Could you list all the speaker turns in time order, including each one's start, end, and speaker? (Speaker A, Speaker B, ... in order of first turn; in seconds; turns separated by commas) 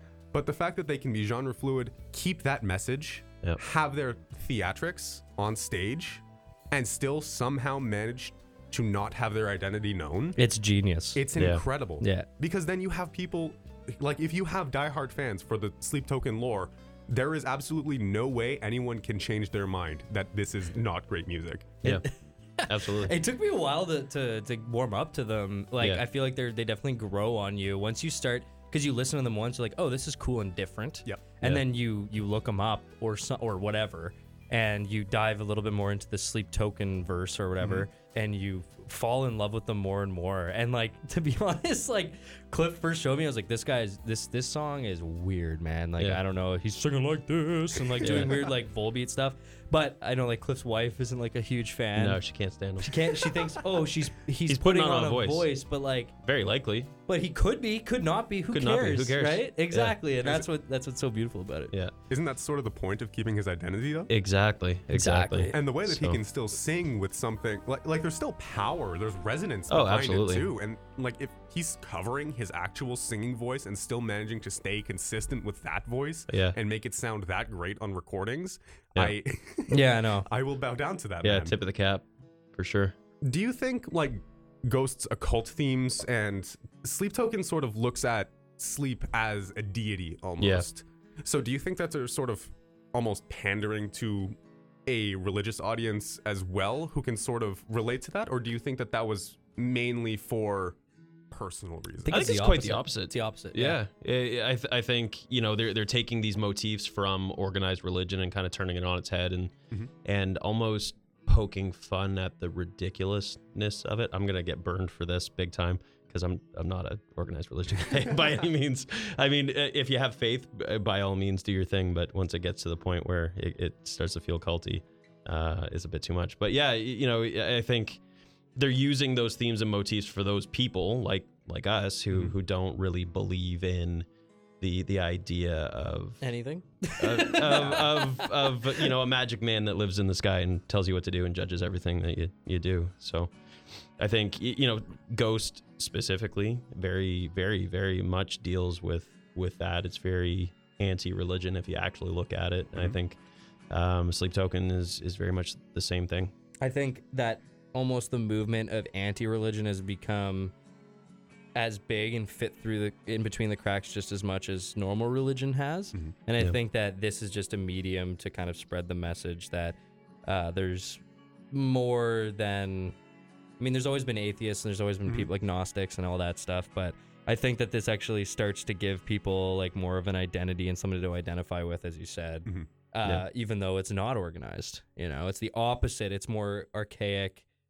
Speaker A: 0.3-10.4, Speaker B: 10.4-11.2, Speaker A: 11.2-21.8, Speaker C: 11.3-11.6, Speaker B: 12.0-12.3, Speaker B: 21.8-52.2, Speaker C: 22.7-23.1, Speaker A: 37.6-37.9, Speaker C: 48.0-48.3, Speaker C: 51.9-53.5, Speaker B: 52.8-56.1, Speaker C: 54.5-55.5, Speaker C: 56.2-56.9, Speaker B: 57.1-61.7, Speaker C: 58.5-60.0, Speaker A: 60.2-60.5, Speaker A: 62.1-64.1, Speaker C: 64.1-66.2, Speaker B: 64.9-65.5, Speaker A: 65.5-81.6, Speaker C: 69.7-70.5, Speaker C: 76.3-76.5, Speaker B: 79.7-80.3, Speaker C: 81.2-82.9, Speaker A: 83.2-100.8, Speaker C: 90.4-90.7, Speaker A: 101.3-102.2, Speaker B: 102.0-103.8, Speaker C: 102.1-109.5, Speaker C: 110.0-128.0, Speaker C: 128.5-134.1, Speaker C: 134.6-136.3, Speaker B: 136.2-138.9, Speaker C: 137.0-143.3, Speaker C: 144.0-153.2, Speaker C: 153.7-156.3, Speaker B: 156.6-160.5, Speaker B: 161.5-172.9, Speaker B: 173.6-187.4